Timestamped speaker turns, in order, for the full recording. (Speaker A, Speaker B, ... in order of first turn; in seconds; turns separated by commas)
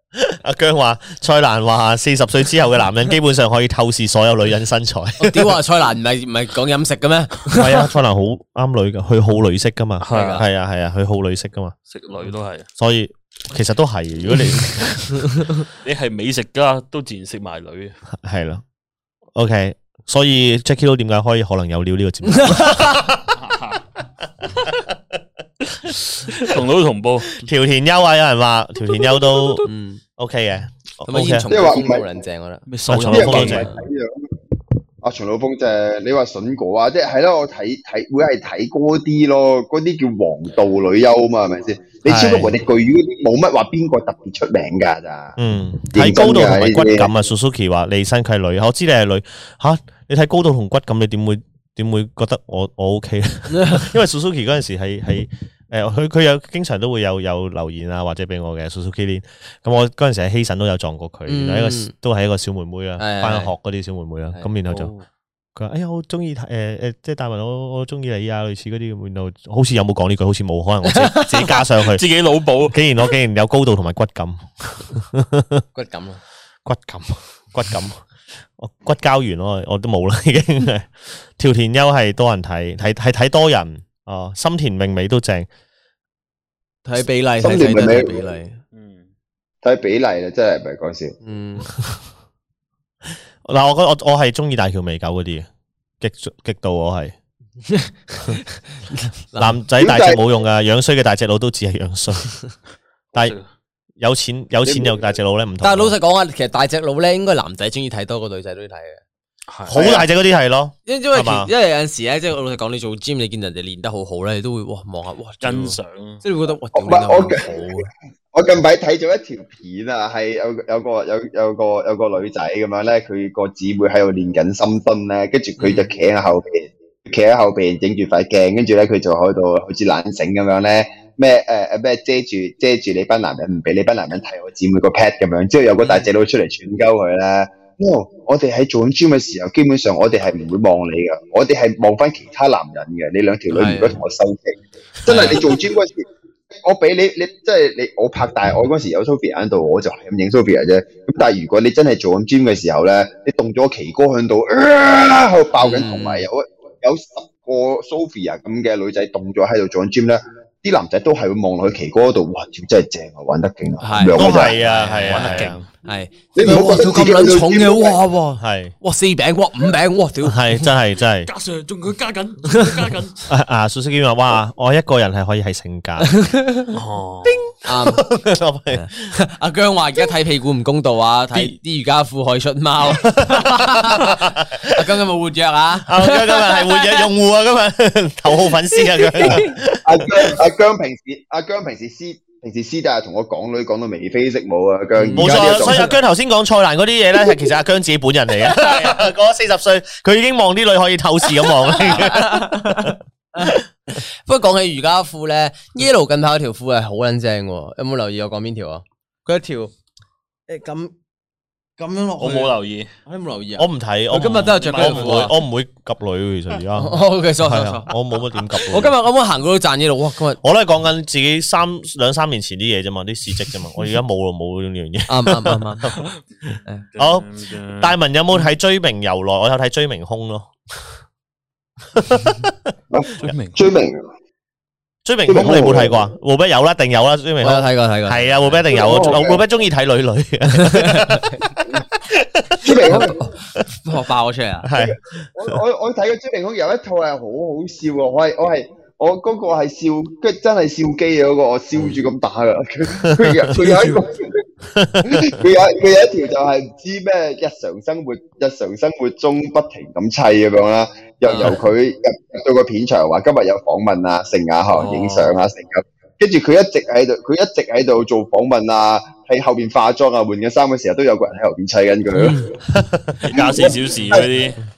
Speaker A: 0.1-5.6, Speaker B: 5.2-7.9, Speaker A: 7.5-11.7, Speaker C: 10.0-10.4, Speaker B: 10.1-10.5, Speaker C: 11.9-12.7, Speaker A: 12.8-15.3, Speaker B: 15.4-15.6, Speaker C: 15.8-18.0, Speaker A: 18.2-18.6, Speaker A: 19.4-23.4, Speaker B: 22.3-23.1, Speaker C: 23.4-23.8, Speaker A: 24.4-24.9, Speaker C: 25.7-27.4, Speaker A: 27.3-31.5, Speaker C: 29.0-29.6, Speaker B: 29.7-30.0, Speaker B: 31.1-32.6, Speaker D: 31.5-32.1, Speaker C: 32.7-33.7, Speaker A: 32.9-33.7, Speaker D: 33.1-34.3, Speaker B: 33.5-33.8, Speaker D: 35.0-45.4, Speaker A: 42.1-42.5, Speaker A: 45.4-64.9, Speaker D: 45.9-47.1, Speaker B: 53.5-53.9, Speaker B: 61.3-61.9, Speaker B: 63.0-63.5, Speaker C: 64.7-65.0, Speaker A: 65.5-72.0, Speaker B: 70.9-71.3, Speaker C: 71.5-72.8, Speaker A: 72.7-75.6, Speaker B: 75.7-76.2, Speaker A: 76.7-78.0, Speaker A: 78.6-85.5, Speaker B: 86.8-88.6, Speaker D: 87.4-88.2, Speaker C: 88.7-89.1, Speaker D: 89.6-91.2, Speaker B: 91.2-91.7, Speaker A: 93.4-95.5, Speaker A: 96.0-97.1, Speaker B: 97.6-99.6, Speaker A: 99.4-102.3, Speaker D: 99.8-100.2, Speaker C: 103.2-103.5, Speaker A: 104.0-105.9, Speaker D: 104.6-105.1, Speaker B: 105.6-109.0, Speaker C: 109.5-109.8, Speaker A: 109.7-111.5, Speaker D: 109.7-110.1, Speaker B: 110.9-117.9, Speaker C: 115.4-116.2, Speaker D: 116.8-146.1, Speaker B: 125.6-125.9, Speaker B: 143.5-144.0, Speaker B: 145.1-145.4, Speaker A: 145.1-145.4, Speaker D: 146.6-164.6, Speaker B: 155.6-156.2, Speaker B: 163.8-170.7, Speaker A: 164.1-165.6, Speaker C: 164.9-165.7, Speaker D: 166.3-168.0, Speaker A: 168.4-168.7, Speaker A: 170.2-171.3, Speaker C: 171.3-173.3, Speaker A: 173.3-176.1, Speaker B: 176.0-176.7, Speaker C: 176.7-177.4, Speaker A: 177.2-179.1, Speaker B: 177.7-178.1, Speaker B: 178.7-187.1, Speaker A: 182.8-184.8, Speaker A: 185.9-190.3, Speaker B: 188.8-189.6, Speaker D: 189.8-195.9, Speaker B: 195.0-195.9, Speaker A: 195.2-203.7, Speaker C: 198.6-199.0, Speaker B: 201.4-203.6, Speaker B: 204.2-209.7, Speaker B: 210.5-210.9, Speaker B: 211.8-215.3, Speaker C: 212.2-212.9, Speaker A: 213.6-218.9, Speaker C: 214.5-215.3, Speaker B: 216.8-217.9, Speaker B: 218.6-220.4, Speaker A: 220.4-226.0, Speaker B: 225.1-226.0, Speaker C: 226.9-228.0, Speaker A: 227.0-227.3, Speaker A: 227.8-230.5, Speaker A: 231.9-232.7, Speaker D: 232.9-234.0, Speaker C: 233.2-233.6, Speaker A: 235.1-243.1, Speaker D: 235.3-236.0, Speaker B: 237.4-238.7, Speaker D: 238.7-239.4, Speaker B: 240.5-241.4, Speaker D: 242.6-243.2, Speaker B: 242.7-244.7, Speaker A: 244.6-245.6, Speaker D: 244.8-254.5, Speaker A: 253.0-253.5, Speaker A: 254.7-255.4, Speaker D: 255.0-272.6, Speaker C: 261.3-261.6, Speaker C: 264.7-265.4, Speaker B: 272.2-272.5, Speaker A: 272.7-273.2, Speaker C: 273.2-274.6, Speaker D: 273.3-274.3